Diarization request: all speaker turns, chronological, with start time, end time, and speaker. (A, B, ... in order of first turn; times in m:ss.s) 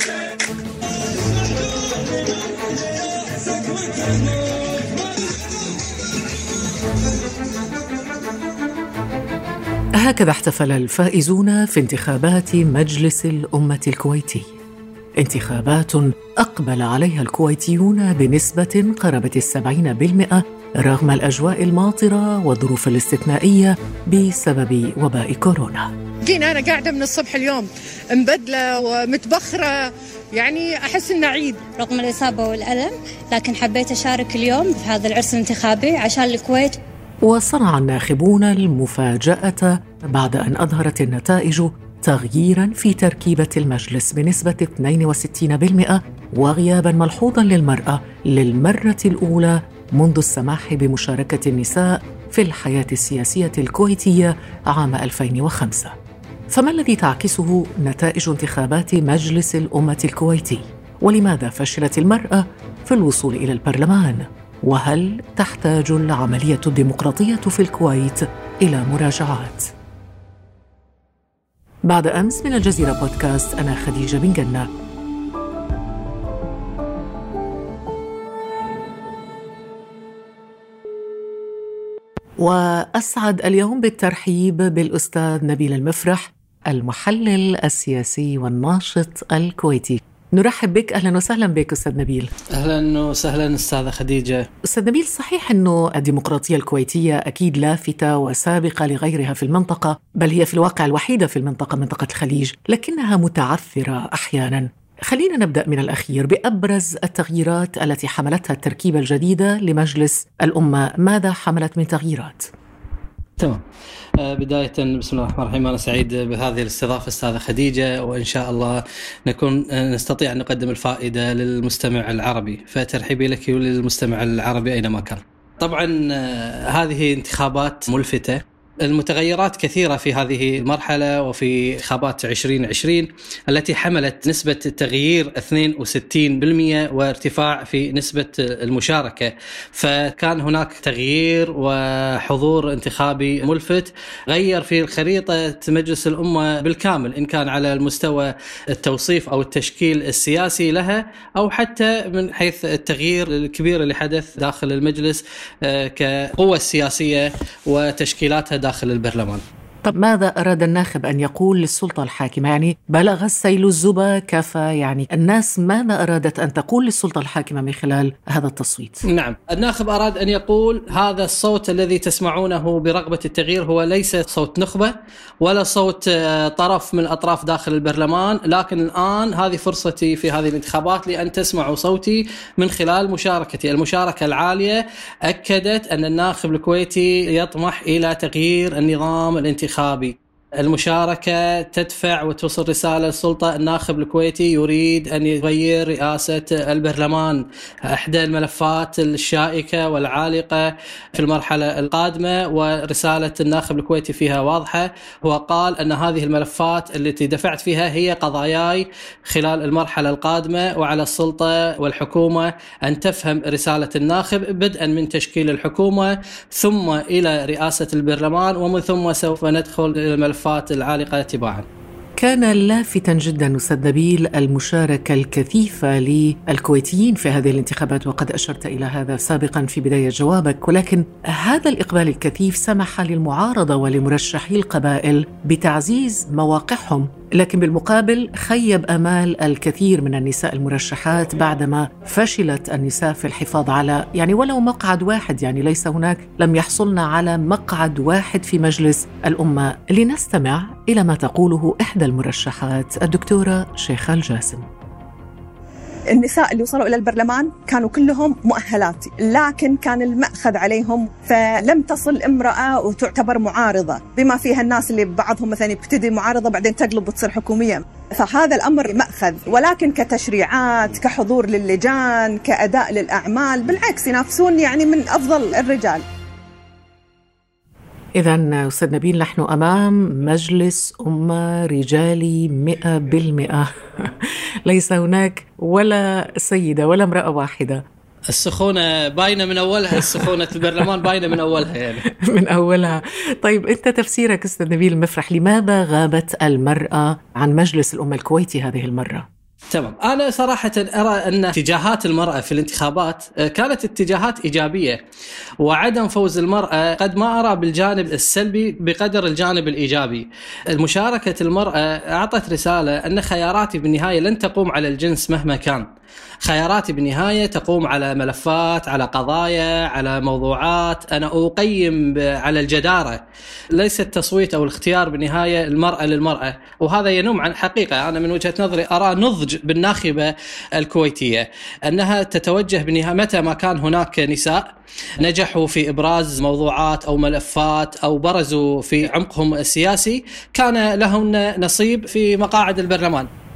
0:10.0-0:14.5 A
0:15.2-0:25.9 A
0:26.2-0:31.7 B
0:31.7-0:36.7 C
0:37.2-0:55.9 A
0:56.5-1:09.7 A
1:11.8-1:14.7 A
1:22.4-1:32.3 A
1:32.5-1:34.5 D
1:34.7-1:52.5 A
1:54.2-2:39.4 D
2:39.8-2:49.0 A
2:49.0-3:41.6 D
3:42.2-4:14.6 A
4:16.1-4:36.0 E
4:38.2-4:47.8 A
4:48.3-4:52.0 D
4:52.1-4:59.2 A
4:59.7-5:05.0 D
5:05.6-5:15.8 D
5:16.4-5:23.2 D
5:23.7-5:34.6 D
5:35.2-5:43.3 D